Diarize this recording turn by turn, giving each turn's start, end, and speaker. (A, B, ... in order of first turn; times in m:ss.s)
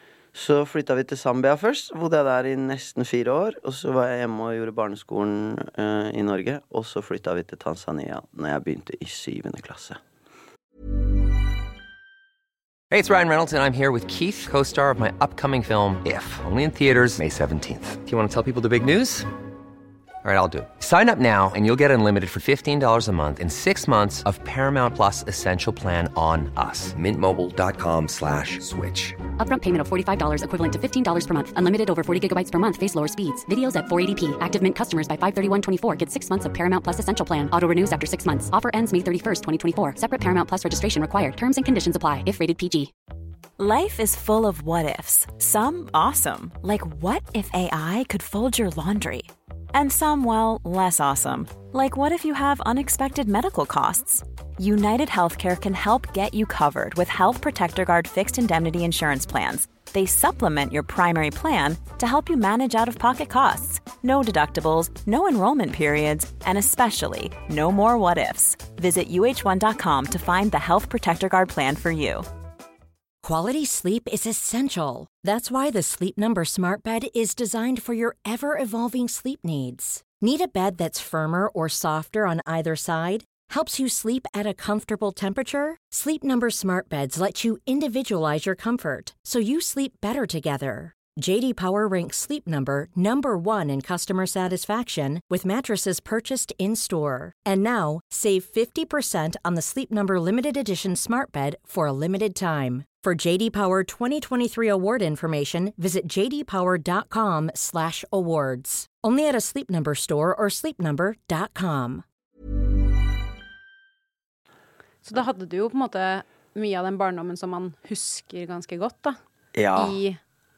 0:00.3-0:10.0 A
0:12.9-0:19.3 B
0:20.2-0:29.2 B
0:29.4-0:42.9 C
0:43.6-1:12.3 D
1:13.2-1:52.0 E
1:55.0-1:59.2 F
1:59.5-2:00.0 A
1:59.7-2:00.2 F